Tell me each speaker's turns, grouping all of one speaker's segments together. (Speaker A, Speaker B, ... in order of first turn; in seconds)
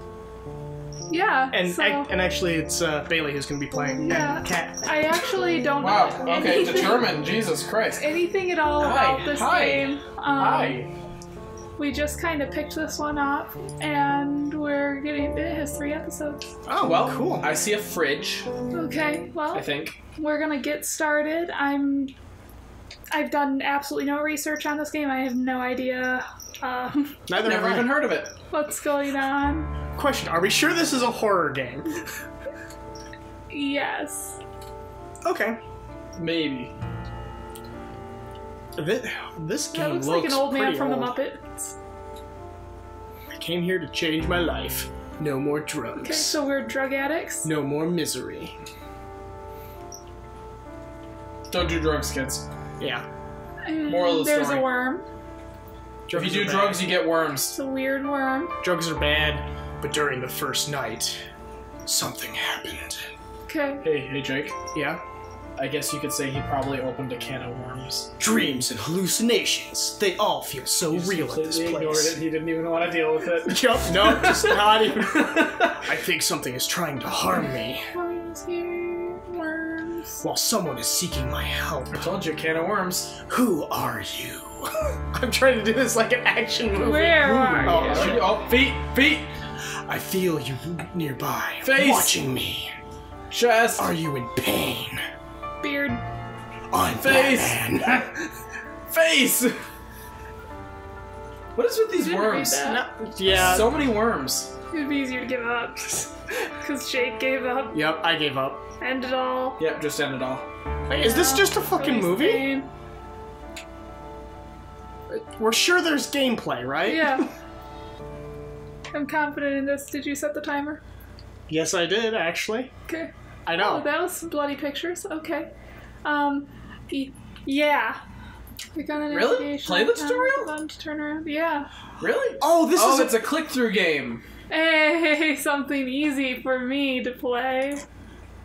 Speaker A: 1.1-2.1, 4.0-7.3, 8.0-10.8, 11.8-16.4, 18.7-22.1, 23.1-27.2, 28.5-29.7, 33.5-34.4, 39.7-41.8, 46.0-47.5, 53.6-55.1, 57.5-58.5, 63.5-63.9, 77.9-80.2, 86.7-88.2, 95.6-96.0, 102.0-102.8, 104.7-107.9, 108.8-109.6, 110.9-112.7, 116.8-117.3, 118.9-120.8, 122.9-125.5, 126.0-128.0, 128.8-131.7, 134.5-137.8
Speaker B: 1.5-5.2, 16.6-17.5, 27.3-28.0, 29.9-32.0, 35.2-35.6, 38.8-41.2, 43.3-46.4, 47.4-48.5, 52.8-53.0, 56.1-56.9, 58.6-61.2, 61.9-63.0, 64.7-65.0, 68.2-72.2, 73.5-77.9, 80.2-82.1, 83.3-88.3, 89.9-92.7, 93.8-95.0, 96.7-98.3, 102.6-103.7, 107.7-108.6, 110.9-112.5, 115.4-117.3, 121.5-122.7, 123.5-123.9, 132.4-133.3
Speaker C: 5.8-8.1, 8.8-10.9, 16.8-18.5, 19.5-20.0, 27.4-28.3, 36.2-36.7, 51.5-52.5, 53.9-54.6, 56.1-57.6, 63.8-64.6, 65.6-68.2, 70.9-75.8, 81.9-83.1, 87.8-89.3, 91.6-92.2, 93.3-93.9, 97.0-98.0, 98.9-99.7, 101.5-102.6, 103.3-104.5, 109.6-110.5, 129.1-130.5, 132.0-134.2